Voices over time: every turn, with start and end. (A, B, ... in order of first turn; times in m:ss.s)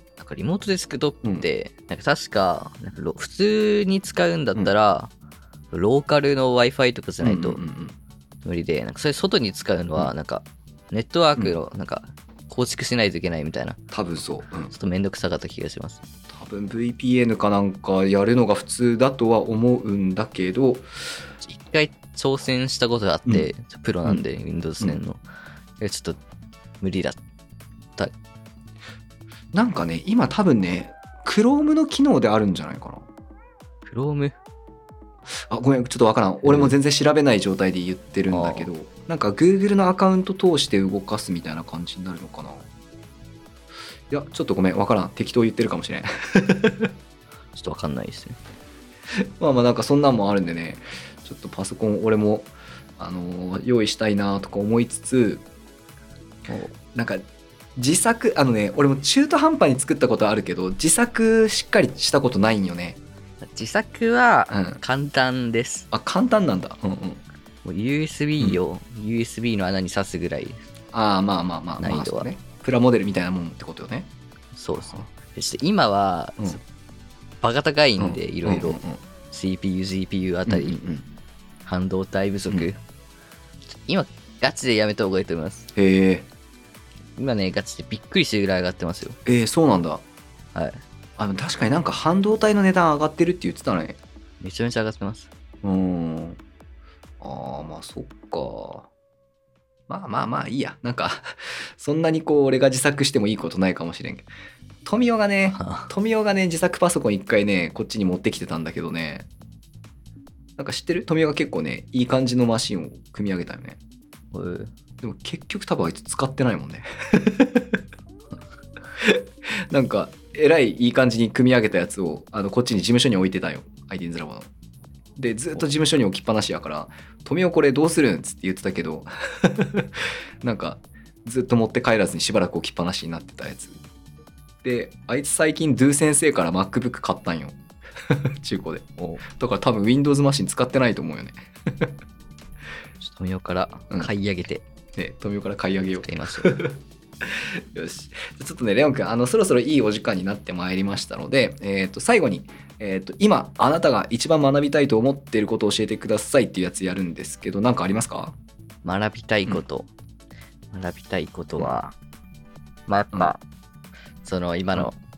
0:00.2-0:05.1 A
0:05.7-0:07.6 A
0:07.2-0:08.0 B
0:08.4-0:13.8 A
0:13.9-0:14.7 B
0:14.7-0:16.0 A
0:16.3-0:20.9 B
0:21.4-0:25.2 A
0:25.8-0:26.2 A
0:26.8-0:27.2 A
0:29.5-0:33.1 B
0:33.9-0:34.4 A
0:35.3-0:42.7 B
0:36.4-0:36.8 A
0:38.3-0:38.7 A
0:44.1-0:46.9 B
0:47.6-0:48.4 A
0:49.4-0:55.4 B
0:56.9-0:57.2 B
0:57.8-1:03.0 B
1:03.4-1:05.9 A
1:04.5-1:04.8 B
1:05.9-1:07.2 B
1:07.6-1:10.6 A
1:10.9-1:14.1 B
1:11.8-1:12.3 A
1:14.5-1:16.6 A
1:17.4-1:20.8 A
1:18.0-1:19.0 B
1:20.5-1:21.1 B
1:21.6-1:22.8 A
1:23.7-1:25.7 A
1:25.8-1:26.3 B
1:27.2-1:29.2 A
1:29.3-1:30.0 B
1:30.6-1:30.8 A
1:31.2-1:34.0 B
1:34.4-1:35.3 A
1:35.6-1:36.4 B
1:37.2-1:38.9 B
1:39.9-1:44.3 B
1:44.8-1:49.3 B
1:45.5-1:45.9 A
1:50.6-1:53.8 B
1:54.3-1:54.7 A
1:55.0-1:57.8 B
1:59.0-2:04.5 B
2:05.2-2:13.8 B
2:14.6-2:17.6 B
2:18.1-2:21.9 B
2:23.0-2:24.6 A
2:25.0-2:38.4 B
2:26.0-2:26.6 A
2:38.8-2:39.9 A
2:40.7-2:42.0 A
2:42.9-2:43.4 A
2:44.2-2:45.0 A